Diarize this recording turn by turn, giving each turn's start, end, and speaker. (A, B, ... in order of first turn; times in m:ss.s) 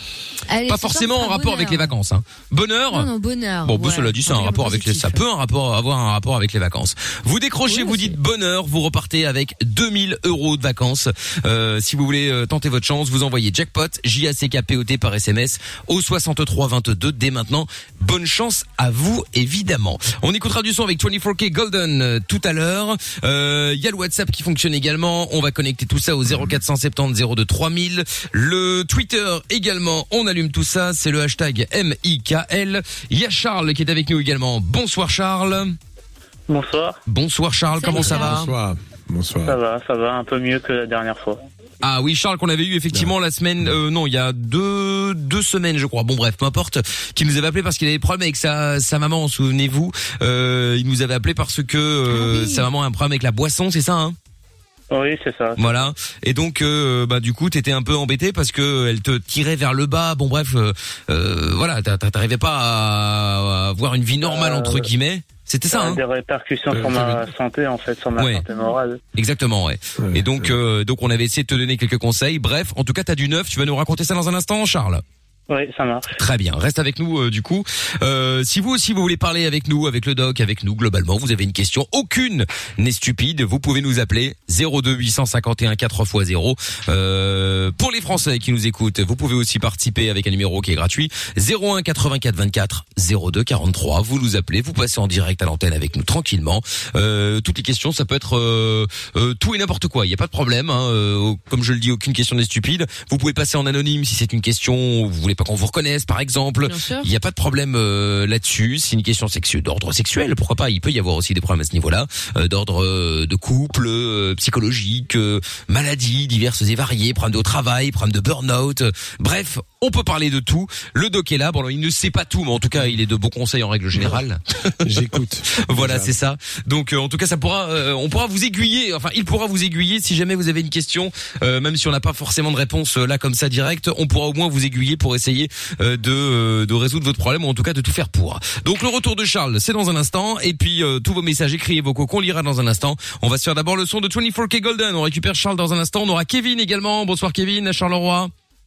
0:00.5-0:01.9 A
0:00.7-0:03.1 B
0:02.9-0:05.2 A
0:03.6-0:35.7 B
0:07.6-0:08.2 A
0:36.5-0:37.0 C
0:37.0-0:38.5 B
0:37.8-0:38.4 A
0:37.9-0:39.6 D
0:39.4-0:41.4 C
0:41.8-0:54.2 B
0:52.1-0:52.7 A
0:54.9-0:55.9 C
0:55.6-1:06.0 B
1:04.2-1:04.9 C
1:05.7-1:09.0 C
1:06.7-1:07.2 B
1:08.2-1:08.4 B
1:09.2-1:15.0 B
1:10.0-1:10.6 D
1:15.5-1:16.1 C
1:16.1-2:04.8 B
1:46.6-1:47.1 A
2:04.8-2:06.1 D
2:05.6-2:28.3 B